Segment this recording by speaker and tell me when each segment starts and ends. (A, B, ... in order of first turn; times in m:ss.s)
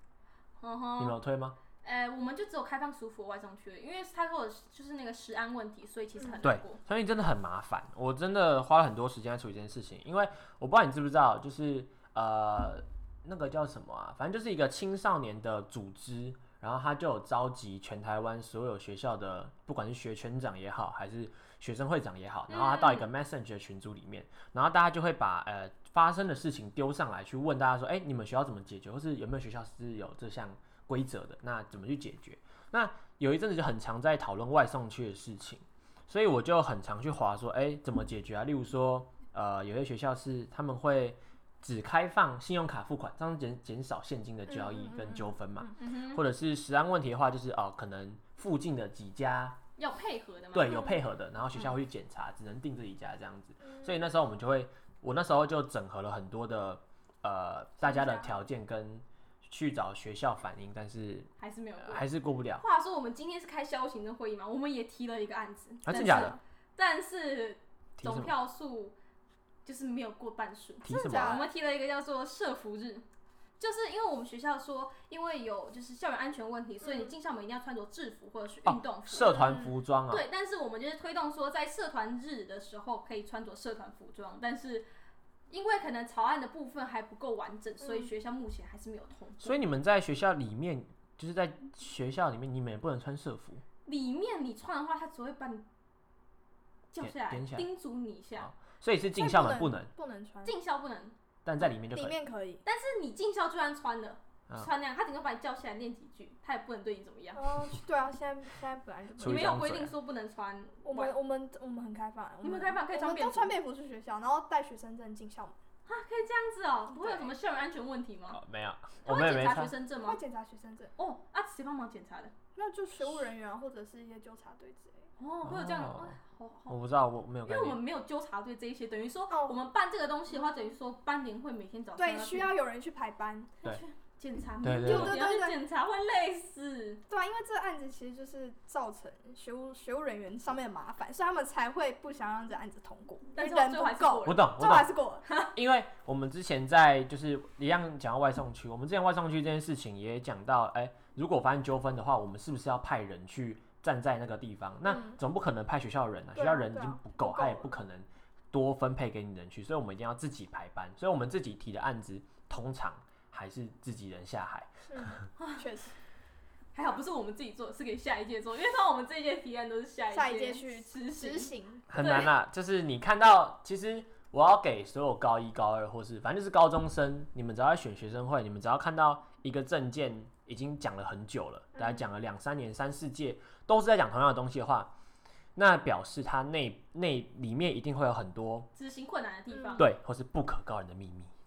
0:00.6-0:01.2 A
0:01.0-0:01.6 B
0:01.8-0:06.8 A
0:06.4-0:49.6 B
0:22.5-0:23.1 A
0:44.5-0:45.7 C
0:45.8-0:46.2 A
0:49.8-0:51.0 A
0:50.5-1:01.3 B
0:57.8-0:58.4 A
1:01.4-1:02.1 A
1:01.8-1:02.6 B
1:02.6-1:09.0 A
1:05.8-1:06.4 B
1:05.9-1:06.3 C
1:08.0-1:08.3 B
1:09.6-1:13.0 A
1:10.8-1:11.4 B
1:10.9-1:11.5 C
1:13.6-1:24.9 A
1:18.6-1:20.2 B
1:25.5-1:29.6 A
1:29.4-1:33.6 B
1:33.9-1:35.6 A
1:36.9-1:38.5 A
1:37.0-1:37.7 B
1:38.4-1:39.9 B
1:39.2-1:40.6 C
1:40.4-1:41.2 A
1:41.4-1:42.2 B
1:41.9-1:42.6 C
1:42.6-1:47.5 A
1:47.4-1:49.6 C
1:49.2-1:49.9 B
1:49.2-1:51.2 A
1:50.8-1:55.6 C
1:52.4-1:53.5 A
1:55.9-1:58.4 A
1:57.0-1:57.3 C
1:58.3-1:59.7 B
1:59.0-2:00.2 A
2:00.0-2:00.9 C
2:01.0-2:02.3 A
2:02.6-2:05.1 C
2:05.2-2:06.7 A
2:05.4-2:06.2 B
2:06.7-2:07.8 B
2:07.5-2:12.5 A
2:09.3-2:09.6 C
2:12.0-2:13.6 C
2:13.6-2:17.0 A
2:14.6-2:15.2 B
2:14.8-2:15.6 C
2:17.1-2:25.2 C
2:23.4-2:24.5 A
2:24.3-2:24.9 B
2:25.5-2:44.8 B
2:34.9-2:35.2 C
2:36.4-2:37.8 C
2:44.9-2:45.9 C
2:45.4-2:45.7 A
2:46.7-2:52.3 A
2:50.1-2:52.3 C
2:51.9-3:04.9 B
3:01.8-3:02.0 C
3:05.6-3:08.7 B
3:08.8-3:09.9 A
3:09.5-3:09.9 C
3:09.8-3:11.3 B